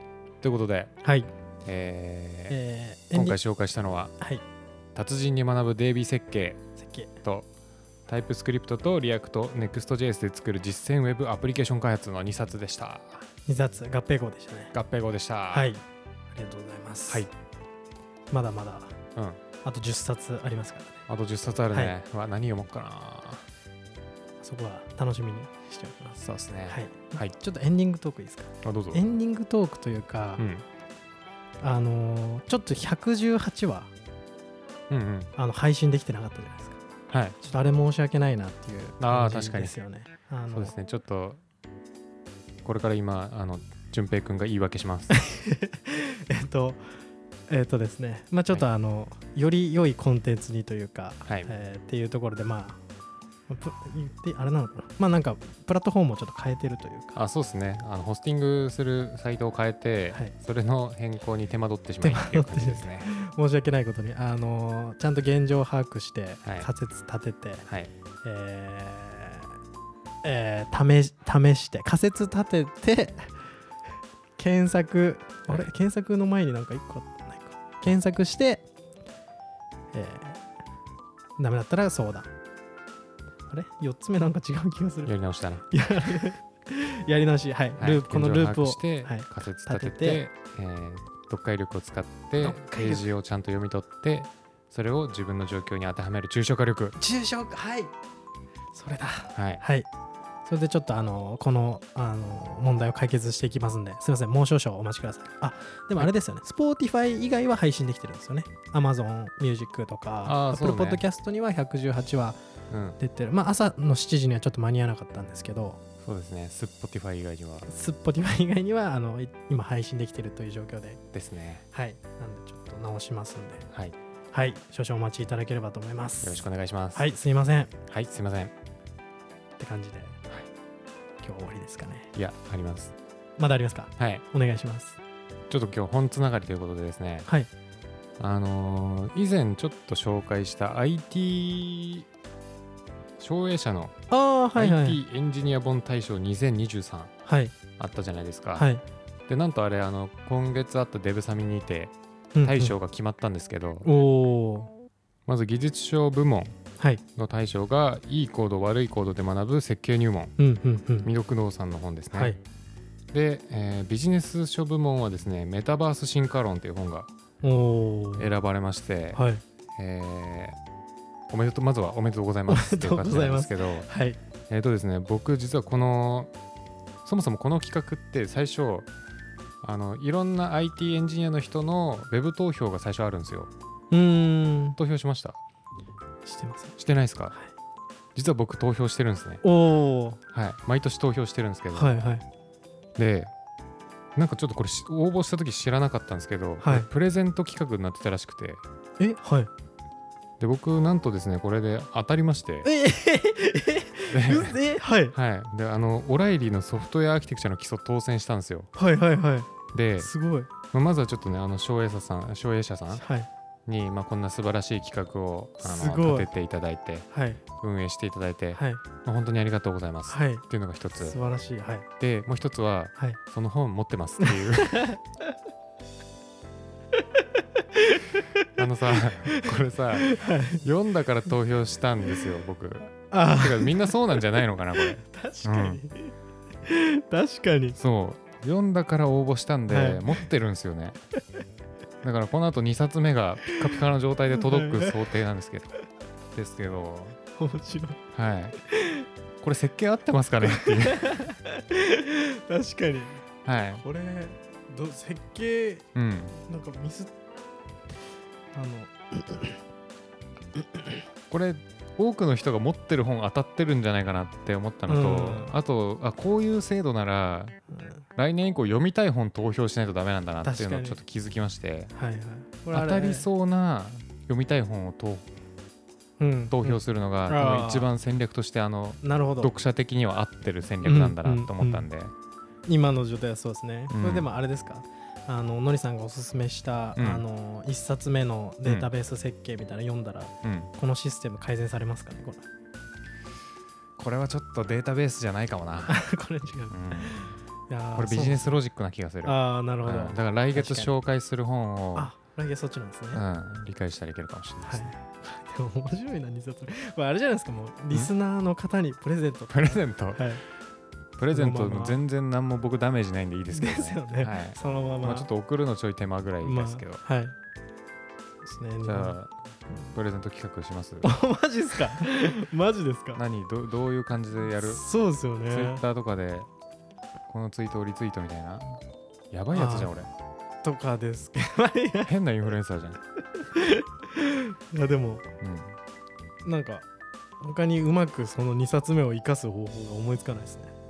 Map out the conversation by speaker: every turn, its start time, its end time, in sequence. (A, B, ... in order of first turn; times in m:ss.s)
0:00.4-0:00.9 A
0:01.0-0:01.3 B
0:01.6-0:02.6 A
0:02.5-0:03.4 B
0:03.1-0:04.1 A
0:04.2-0:04.4 B
0:05.0-0:06.6 A
0:06.8-0:07.1 B
0:07.2-0:07.5 A
0:08.1-0:13.3 A
0:13.5-0:14.7 B
0:14.7-0:15.7 A
0:15.5-0:17.3 B
0:18.3-0:19.0 B
0:19.6-0:21.1 B
0:21.1-0:23.5 A
0:24.4-0:30.4 B
0:26.2-0:27.3 A
0:28.6-0:29.1 A
0:30.4-0:30.6 A
0:31.6-0:33.9 B
0:34.9-0:35.3 A
0:35.4-0:36.8 B
0:37.1-0:37.4 A
0:37.4-0:40.7 B
0:39.0-0:39.8 A
0:40.5-0:41.4 A
0:42.6-0:45.1 A
0:45.1-0:52.8 B
0:51.2-0:51.5 A
0:53.5-0:57.2 B
0:57.1-1:03.1 A
1:02.0-1:07.6 B
1:07.7-1:07.9 A
1:08.2-1:09.5 B
1:10.2-1:13.5 B
1:14.4-1:18.6 B
1:19.9-1:20.4 B
1:21.4-1:22.3 B
1:23.5-1:25.1 B
1:25.0-1:25.7 A
1:25.7-1:30.2 B
1:27.8-1:37.0 A
1:32.4-1:33.1 B
1:37.0-1:37.9 B
1:38.7-1:39.9 B
1:39.4-1:39.6 A
1:40.4-1:52.4 B
1:50.2-1:51.0 A
1:52.7-1:53.0 A
1:53.0-1:55.8 B
1:56.0-1:57.7 A
1:57.7-2:01.0 B
2:01.1-2:01.6 A
2:01.7-2:03.7 B
2:04.3-2:06.4 B
2:06.2-2:07.1 A
2:07.0-2:07.7 B
2:07.9-2:08.5 A
2:09.6-2:10.2 B
2:11.2-2:12.1 B
2:12.1-2:12.9 A
2:13.4-2:15.0 B
2:14.0-2:14.2 A
2:15.5-2:17.3 A
2:18.2-2:22.1 A
2:23.2-2:24.0 A
2:24.1-2:25.0 B
2:24.6-2:27.1 A
2:27.3-2:27.6 B
2:27.8-2:28.7 A
2:28.6-2:28.8 B
2:29.3-2:33.9 A
2:32.4-2:32.8 B
2:33.8-2:34.7 B
2:35.3-2:36.6 A
2:37.2-2:40.4 A
2:40.4-2:41.1 B
2:41.0-2:42.4 A
2:42.1-2:42.4 B
2:43.1-2:47.1 A
2:47.4-2:48.3 B
2:48.2-2:49.2 A
2:49.2-2:49.4 B
2:49.8-2:50.6 A
2:51.3-2:53.9 A
2:52.5-2:54.2 B
2:54.5-2:56.3 A
2:57.0-2:58.9 A
2:59.6-3:03.5 A
3:03.9-3:04.8 B
3:04.8-3:05.4 A
3:06.2-3:06.8 B
3:06.8-3:07.4 A
3:08.2-3:09.4 A
3:09.4-3:10.2 B
3:10.3-3:12.0 A
3:11.7-3:12.2 B
3:13.0-3:13.3 A
3:14.2-3:18.6 A
3:16.6-3:16.9 B
3:19.0-3:19.5 B
3:20.4-3:22.7 A
3:22.6-3:25.2 B
3:24.1-3:24.6 A
3:25.1-3:28.7 A
3:28.8-3:30.5 B
3:29.7-3:30.1 A
3:30.6-3:33.0 A
3:32.9-3:33.3 B
3:33.7-3:41.2 A
3:35.6-3:36.3 B
3:37.1-3:37.4 B
3:38.6-3:38.8 B
3:40.1-3:40.4 B
3:41.0-3:41.9 B
3:42.0-3:44.9 A
3:44.2-3:45.0 B
3:47.6-3:48.5 B
3:48.6-3:55.8 A
3:49.3-3:50.6 B
3:53.1-3:54.2 B
3:54.8-3:56.1 B
3:56.6-3:57.8 B
3:57.8-4:01.0 A
3:59.7-4:00.3 B
4:02.0-4:05.7 A
4:04.3-4:05.0 B
4:06.3-4:07.2 A
4:07.4-4:08.0 B
4:08.1-4:08.6 A
4:08.6-4:09.1 B
4:09.4-4:11.2 A
4:10.4-4:13.2 B
4:13.4-4:13.8 A
4:13.8-4:17.1 B
4:16.0-4:16.4 A
4:18.5-4:19.6 B
4:20.6-4:21.0 B
4:21.3-4:27.6 A
4:24.9-4:25.6 B
4:27.7-4:28.0 B
4:28.2-4:31.9 A
4:30.4-4:31.0 B
4:31.9-4:33.3 B
4:32.7-4:35.3 A
4:36.2-4:37.9 B
4:36.5-4:42.1 A
4:39.0-4:39.6 B
4:40.8-4:41.9 B
4:42.7-4:52.5 B
4:43.9-4:44.3 A
4:47.0-4:47.2 A
4:48.6-4:48.9 A
4:50.4-4:50.7 A
4:54.0-4:56.0 A
4:55.9-4:58.6 B
4:56.7-4:57.3 A
4:57.9-5:02.1 A
4:59.2-5:00.9 B
5:02.0-5:03.2 B
5:03.1-5:05.0 A
5:04.6-5:10.4 B
5:09.5-5:10.3 A
5:11.2-5:17.0 A
5:11.3-5:12.0 B
5:13.5-5:15.3 B
5:16.4-5:17.3 B
5:18.4-5:19.2 B
5:18.8-5:19.3 A
5:19.9-5:21.1 A
5:21.0-5:23.2 B
5:23.2-5:24.8 A
5:24.6-5:25.8 B
5:25.5-5:26.5 A
5:27.3-5:30.1 A
5:29.5-5:29.9 B
5:30.6-5:32.1 B
5:32.1-5:33.0 A
5:33.4-5:35.3 B
5:35.4-5:35.8 A
5:36.4-5:36.8 B
5:37.4-5:40.7 B